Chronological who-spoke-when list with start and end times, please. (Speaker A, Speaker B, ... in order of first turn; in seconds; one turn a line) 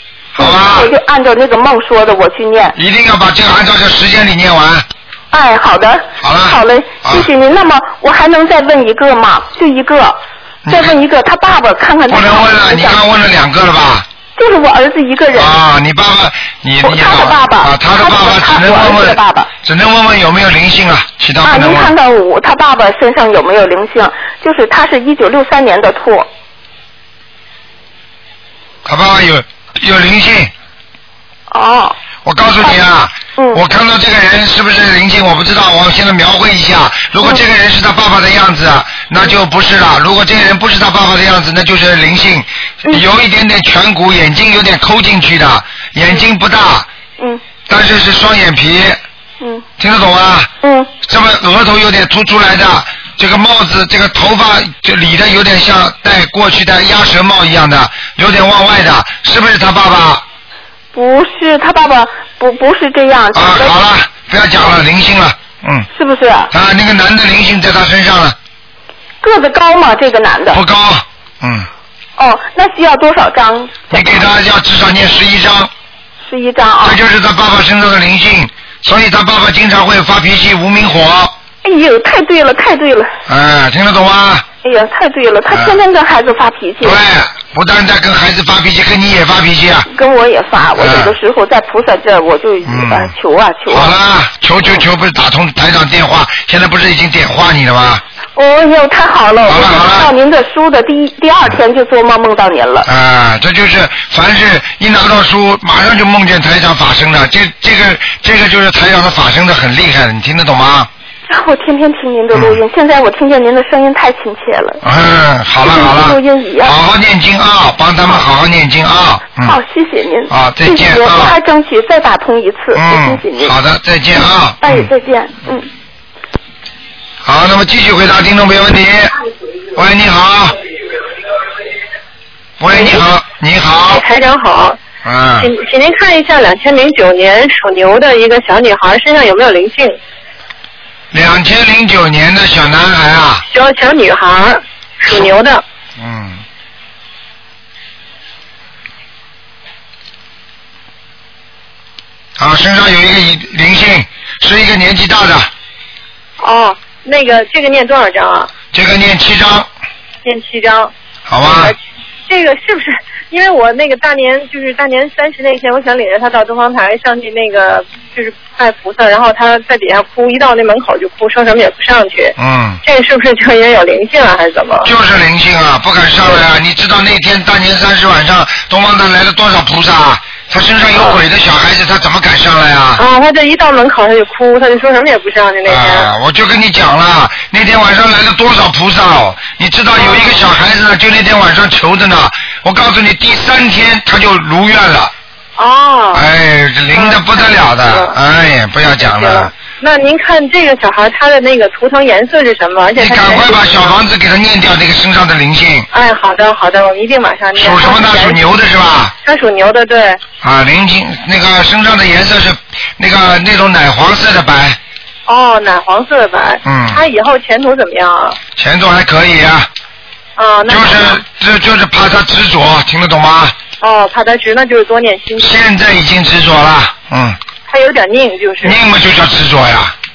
Speaker A: 0.3-0.9
Speaker B: 0.3-2.7
Speaker A: 2.8-4.8
Speaker B: 5.3-10.2
Speaker A: 6.2-7.3
Speaker A: 10.7-11.0
Speaker B: 10.7-13.0
Speaker A: 12.1-14.1
Speaker B: 14.3-15.5
Speaker A: 15.3-21.9
Speaker B: 16.8-19.5
Speaker B: 21.4-26.2
Speaker A: 28.8-30.5
Speaker B: 31.5-31.9
Speaker A: 32.2-46.9
Speaker A: 47.7-49.0
Speaker B: 49.4-49.6
Speaker A: 49.8-50.5
Speaker B: 50.6-50.9
Speaker A: 51.0-60.2
Speaker B: 60.9-63.8
Speaker A: 63.3-65.9
Speaker B: 65.9-66.5
Speaker A: 66.5-68.3
Speaker B: 69.2-70.6
Speaker A: 70.5-71.7
Speaker B: 72.2-74.2
Speaker A: 73.9-75.7
Speaker B: 76.2-77.0
Speaker A: 76.8-81.3
Speaker B: 81.6-83.1
Speaker A: 83.3-84.4
Speaker B: 84.6-87.0
Speaker A: 85.5-85.8
Speaker A: 86.8-89.9
Speaker B: 89.9-93.9
Speaker A: 90.8-91.2
Speaker A: 92.7-93.1
Speaker A: 93.7-98.0
Speaker B: 98.3-102.9
Speaker A: 99.5-100.1
Speaker A: 102.8-110.9
Speaker B: 111.3-114.8
Speaker A: 112.3-112.6
Speaker A: 114.8-119.6
Speaker B: 115.6-116.7
Speaker B: 119.4-123.5
Speaker A: 120.3-121.3
Speaker A: 122.7-124.9
Speaker B: 124.6-125.7
Speaker A: 127.2-129.1
Speaker A: 129.7-130.6
Speaker A: 132.6-134.0
Speaker C: 133.9-134.8
Speaker A: 135.0-135.5
Speaker C: 135.4-140.0
Speaker A: 141.1-143.4
Speaker C: 143.5-145.6
Speaker A: 146.0-146.4
Speaker A: 152.4-155.5
Speaker C: 156.4-158.5
Speaker A: 158.7-159.7
Speaker C: 160.2-160.9
Speaker A: 161.3-161.7
Speaker C: 161.4-161.8
Speaker C: 162.3-174.9
Speaker A: 172.4-172.8
Speaker A: 174.8-183.0
Speaker C: 183.0-186.1
Speaker A: 185.7-195.1
Speaker C: 189.9-190.4
Speaker C: 195.6-196.2
Speaker A: 196.1-199.5
Speaker C: 196.9-198.1
Speaker C: 198.9-204.0
Speaker A: 203.0-205.9
Speaker C: 205.9-208.4
Speaker A: 207.5-209.1
Speaker C: 209.2-210.2
Speaker A: 210.4-214.8
Speaker C: 215.3-218.4
Speaker A: 216.6-217.0
Speaker A: 218.6-219.7
Speaker C: 220.4-221.2
Speaker A: 220.7-223.5
Speaker C: 223.8-225.6
Speaker A: 225.4-227.4
Speaker C: 227.7-228.8
Speaker A: 228.6-229.9